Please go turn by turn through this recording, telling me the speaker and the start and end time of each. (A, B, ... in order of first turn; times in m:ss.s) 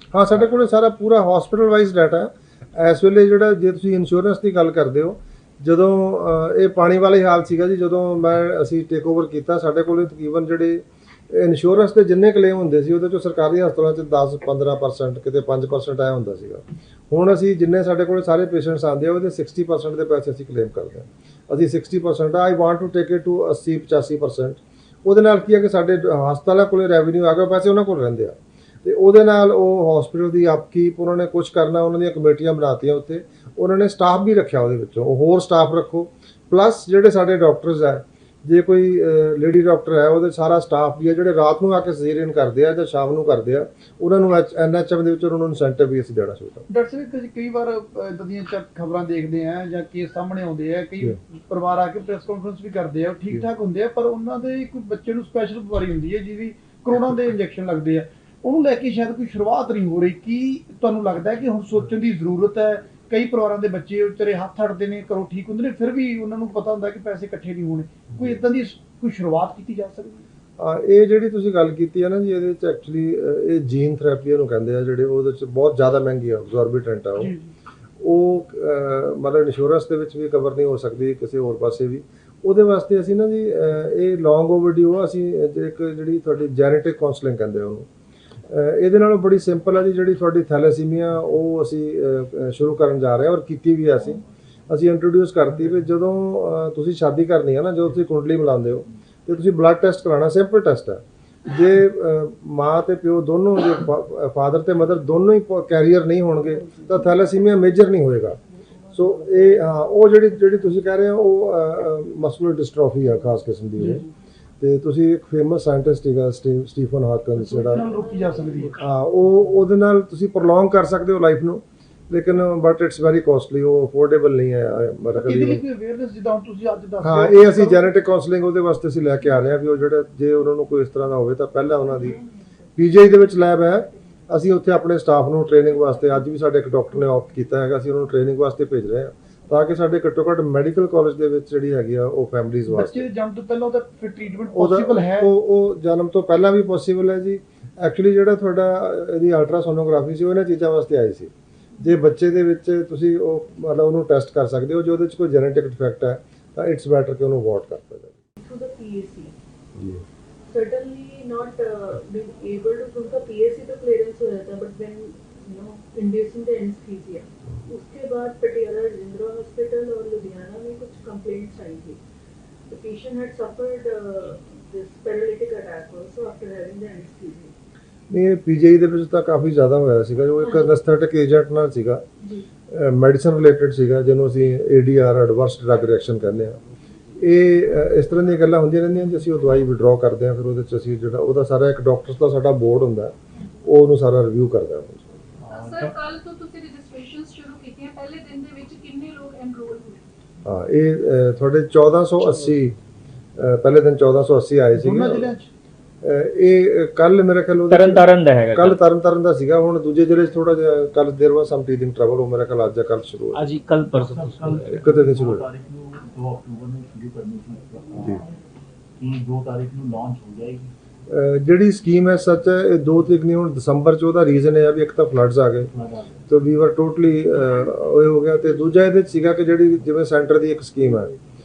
0:00.1-0:46.7 A
0:46.7-1:10.2 B
1:10.6-1:17.3 A
1:17.2-1:17.5 B
1:18.0-1:27.9 A
1:28.5-1:48.4 A
1:48.9-1:54.0 A
1:54.6-1:57.8 A
1:57.4-1:58.8 B
1:57.7-1:58.7 C
1:58.8-2:05.6 A
2:05.2-2:07.9 B
2:07.0-2:12.2 A
2:12.8-2:23.1 A
2:22.7-2:25.3 B
2:24.5-2:38.2 A
2:38.4-2:39.4 C
2:39.8-2:40.0 A
2:40.5-2:52.0 C
2:52.7-2:57.5 C
2:58.1-3:02.0 A
3:02.7-3:06.6 A
3:07.2-3:15.2 A
3:15.4-3:15.9 D
3:15.5-3:20.0 E
3:20.4-3:22.8 A
3:23.4-3:25.3 A
3:24.8-3:25.5 B
3:26.0-3:33.4 A
3:27.7-3:28.8 F
3:33.4-3:34.7 F
3:33.9-3:38.3 D
3:34.7-3:35.5 A
3:39.0-3:40.7 D
3:41.1-3:45.7 A
3:45.7-3:46.2 D
3:46.3-3:51.1 A